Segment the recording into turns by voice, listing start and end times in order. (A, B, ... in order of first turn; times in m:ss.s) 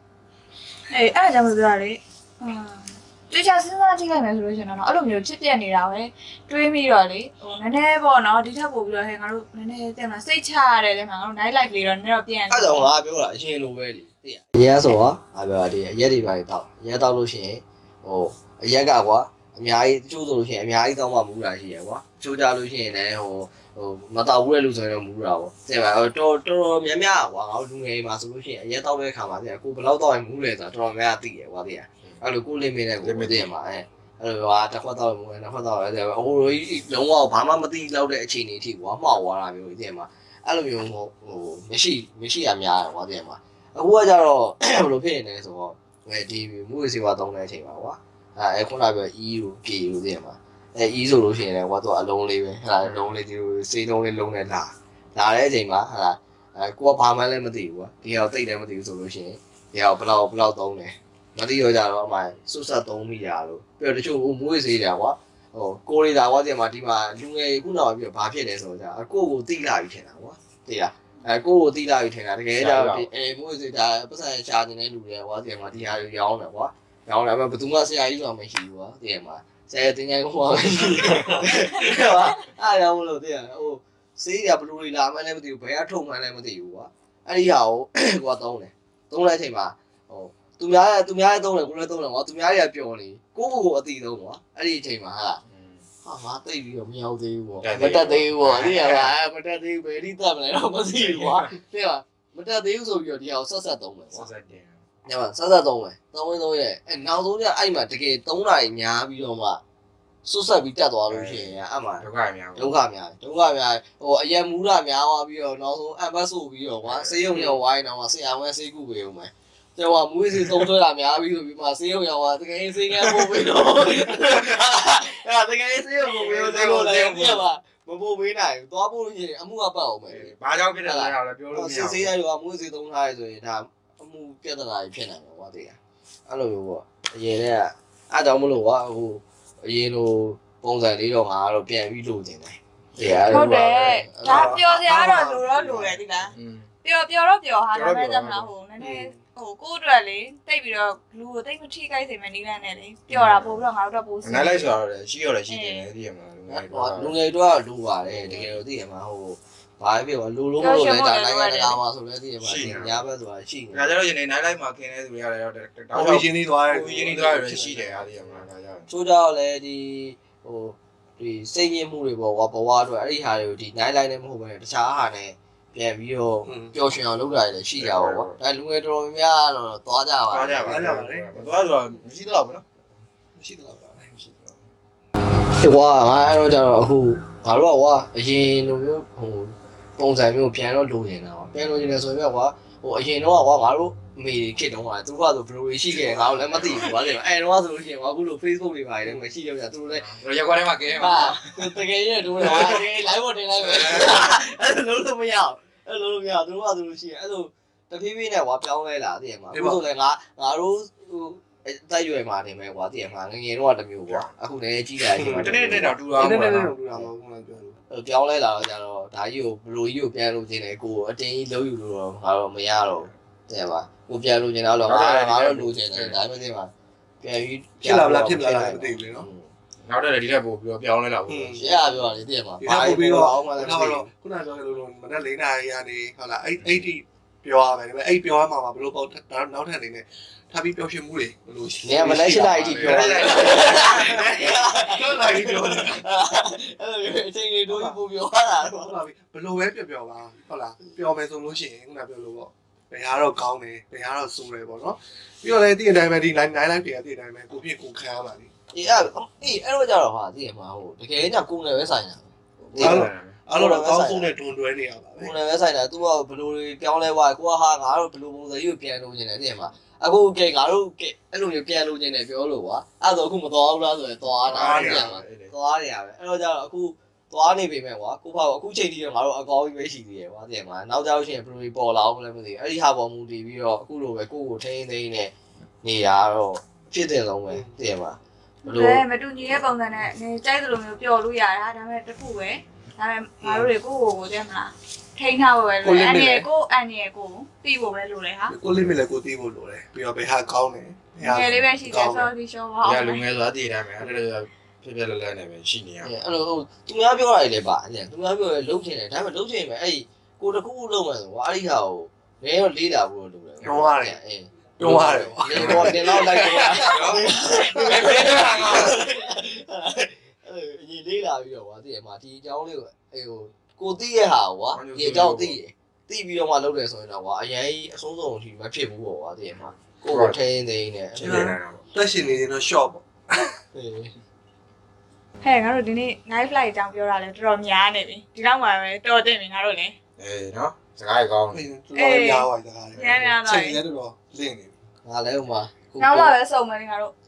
0:00.9-0:12.9 A
0:12.5-1:35.4 B
0:33.0-0:33.5 C
0:52.8-0:53.2 C
1:12.6-1:13.1 C
1:35.5-1:35.8 C
1:36.0-1:44.3 B
1:37.6-1:39.1 C
1:41.0-1:41.5 C
1:44.1-1:44.8 C
1:45.0-1:49.6 B
1:50.2-1:52.0 B
1:51.1-1:52.7 C
1:52.6-2:24.6 B
1:56.8-1:57.4 C
2:06.0-2:07.4 C
2:10.1-2:12.1 C
2:23.0-2:23.5 C
2:23.3-2:26.3 A
2:24.2-2:26.0 D
2:26.3-2:26.7 C
2:26.8-2:34.7 A
2:27.7-2:28.5 C
2:28.8-2:29.1 D
2:33.1-2:33.6 C
2:34.2-2:37.1 C
2:35.5-2:35.8 A
2:36.5-2:43.9 B
2:38.0-2:38.6 C
2:40.6-2:41.8 A
2:42.4-2:43.0 C
2:43.7-2:48.8 C
2:45.9-2:48.4 D
2:48.9-3:00.9 B
2:56.4-2:56.7 D
2:57.8-2:58.3 C
3:00.3-3:02.6 C
3:00.6-3:01.3 D
3:03.3-3:04.1 D
3:04.0-3:04.6 C
3:05.6-3:20.1 B
3:16.0-3:16.4 D
3:16.5-3:17.0 C
3:19.9-3:21.8 C
3:20.9-3:36.3 B
3:22.4-3:22.8 C
3:23.6-3:24.3 C
3:29.5-3:29.8 D
3:35.1-3:37.8 D
3:35.2-3:36.7 C
3:37.9-3:49.5 B
3:44.8-3:46.2 C
3:47.8-3:49.3 D
3:49.8-3:52.0 C
3:51.3-3:51.6 D
3:51.6-3:54.1 B
3:52.6-4:06.0 D
4:01.8-4:09.0 B
4:02.5-4:04.3 C
4:07.7-4:18.5 D
4:18.7-4:24.3 B
4:22.6-4:23.4 C
4:22.8-4:25.3 D
4:25.2-4:49.0 B
4:34.4-4:35.5 C
4:34.5-4:35.2 D
4:48.6-4:58.6 A
4:53.4-4:53.7 D
4:55.8-4:56.4 D
4:58.5-5:02.3 D
5:01.2-5:03.2 A
5:02.8-5:06.1 C
5:06.0-5:31.5 B
5:13.6-5:14.2 D
5:14.8-5:19.0 D
5:14.8-5:19.0 C
5:24.7-5:25.6 C
5:30.1-5:30.4 C
5:31.2-5:31.8 C
5:31.2-5:33.6 D
5:33.7-5:34.1 B
5:35.4-5:40.0 A
5:40.2-5:41.6 C
5:41.5-5:44.8 D
5:41.9-5:43.8 A
5:45.0-5:46.4 B
5:46.0-5:47.1 A